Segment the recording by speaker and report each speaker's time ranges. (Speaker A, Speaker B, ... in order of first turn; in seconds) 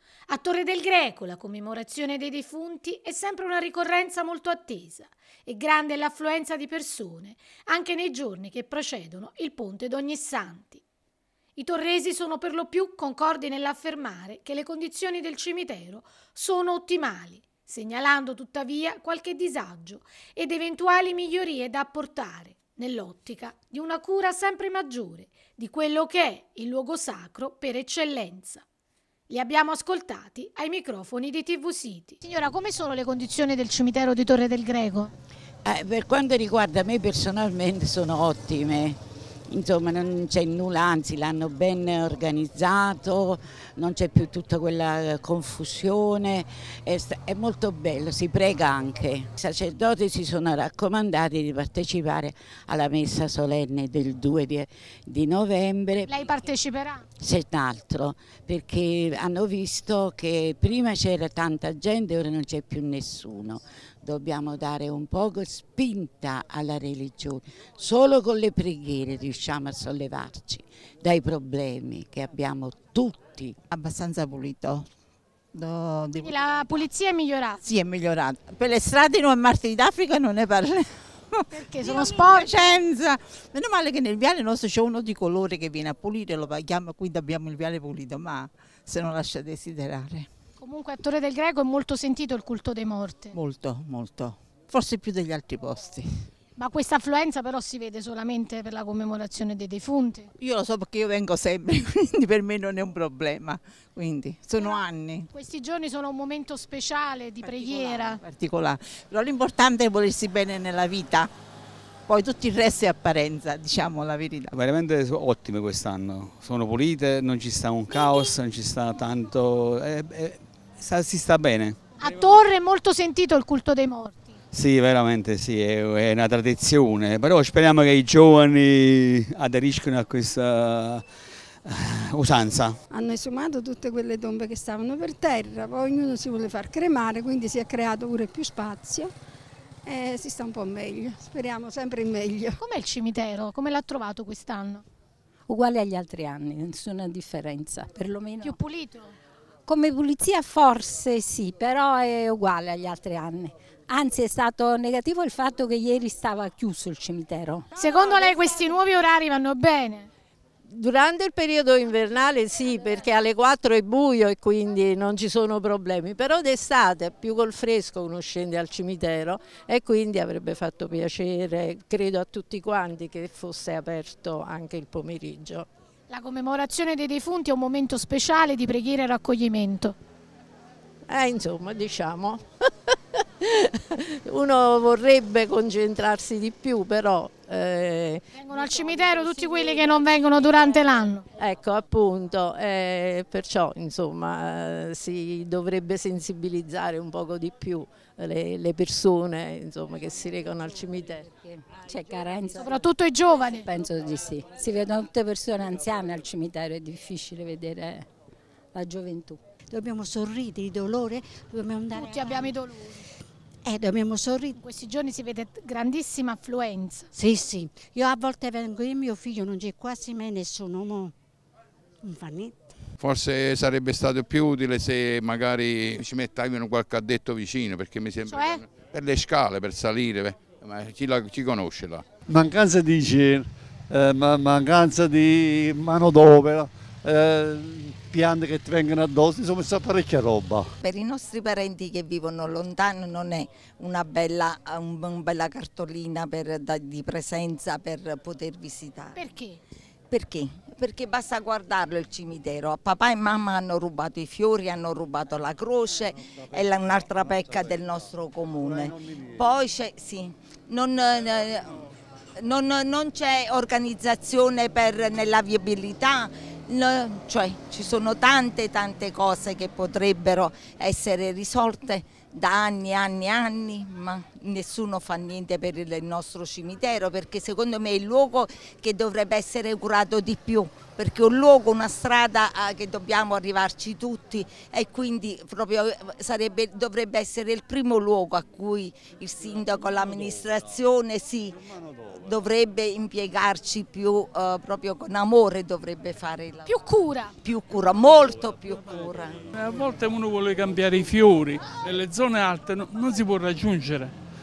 Speaker A: 0.3-10.8, 11.6-28.6, 29.3-35.1, 56.1-57.0, 76.2-77.6, 81.5-82.8, 90.6-93.3, 96.6-100.3, 104.6-108.2, 122.0-124.3, 142.6-144.8, 148.4-149.2, 157.8-160.1, 176.1-180.0, 188.3-191.3, 202.6-203.7, 212.0-213.0, 214.6-217.1, 228.3-228.6, 249.2-249.6, 296.7-297.4
Speaker B: 35.6-56.3, 57.2-73.6, 196.3-196.6
Speaker C: 73.7-74.9, 75.5-76.9, 77.6-90.3, 93.3-96.3, 100.4-105.3, 107.4-111.3, 112.1-114.5
Speaker D: 114.5-121.8, 124.5-131.1, 131.7-132.8
Speaker E: 132.9-139.1, 139.8-142.6, 157.8-158.6
Speaker F: 145.5-148.6, 149.7-157.7, 201.3-202.9, 203.6-208.1, 208.7-209.4
Speaker G: 161.8-162.3, 164.7-165.0, 165.8-166.3, 166.9-175.4, 181.1-183.5, 184.3-188.2, 191.4-195.4, 196.0-196.3, 197.3-198.3, 198.8-201.1
Speaker H: 209.7-212.6, 213.7-214.6, 217.1-221.1, 222.0-222.7
Speaker I: 223.0-232.1
Speaker J: 232.3-240.7
Speaker K: 240.8-249.2, 250.1-261.8, 262.4-291.6, 292.1-296.7, 297.4-299.4
Speaker L: 299.6-304.1